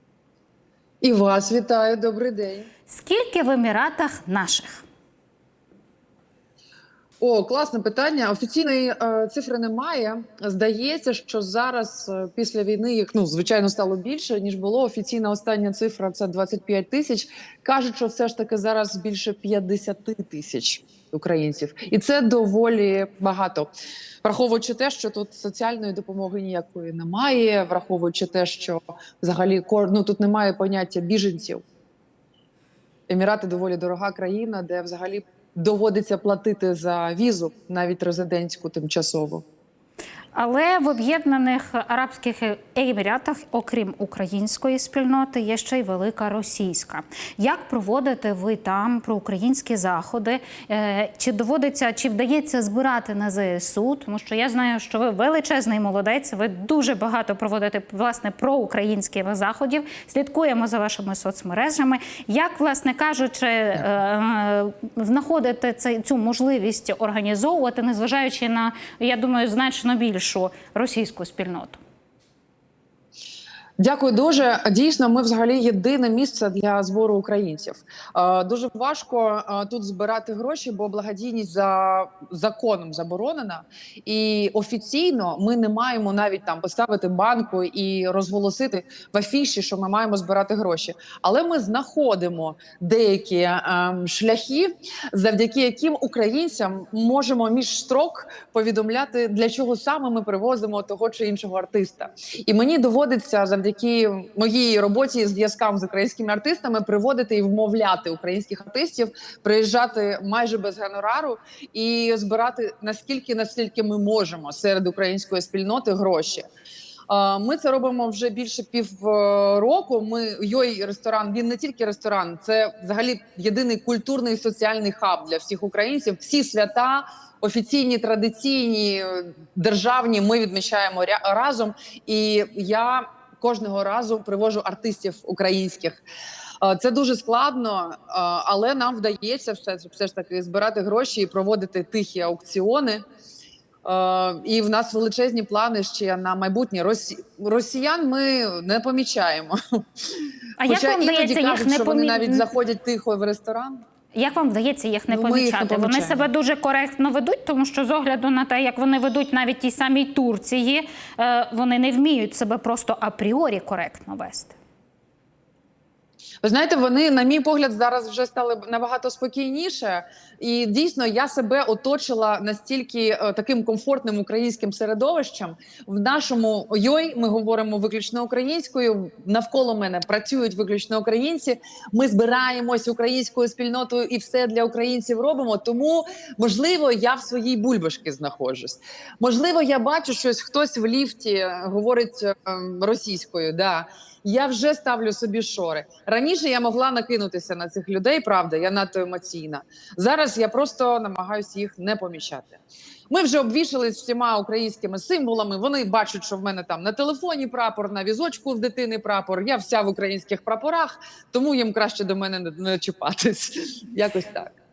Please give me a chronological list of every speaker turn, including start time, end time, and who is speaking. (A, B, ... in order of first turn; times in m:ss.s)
0:01.0-0:02.7 A
0:02.9-0:04.8 B
0:07.2-0:23.7 A
0:24.2-0:31.6 A
0:33.1-0:39.4 A
0:40.3-1:11.8 B
1:13.8-1:56.5 A
1:57.1-2:16.0 A
2:16.6-2:23.0 A
2:23.8-2:29.6 A
2:30.6-2:32.5 B
2:30.6-2:33.8 A
2:34.1-2:44.6 B
2:35.1-2:36.3 A
2:46.4-3:34.5 A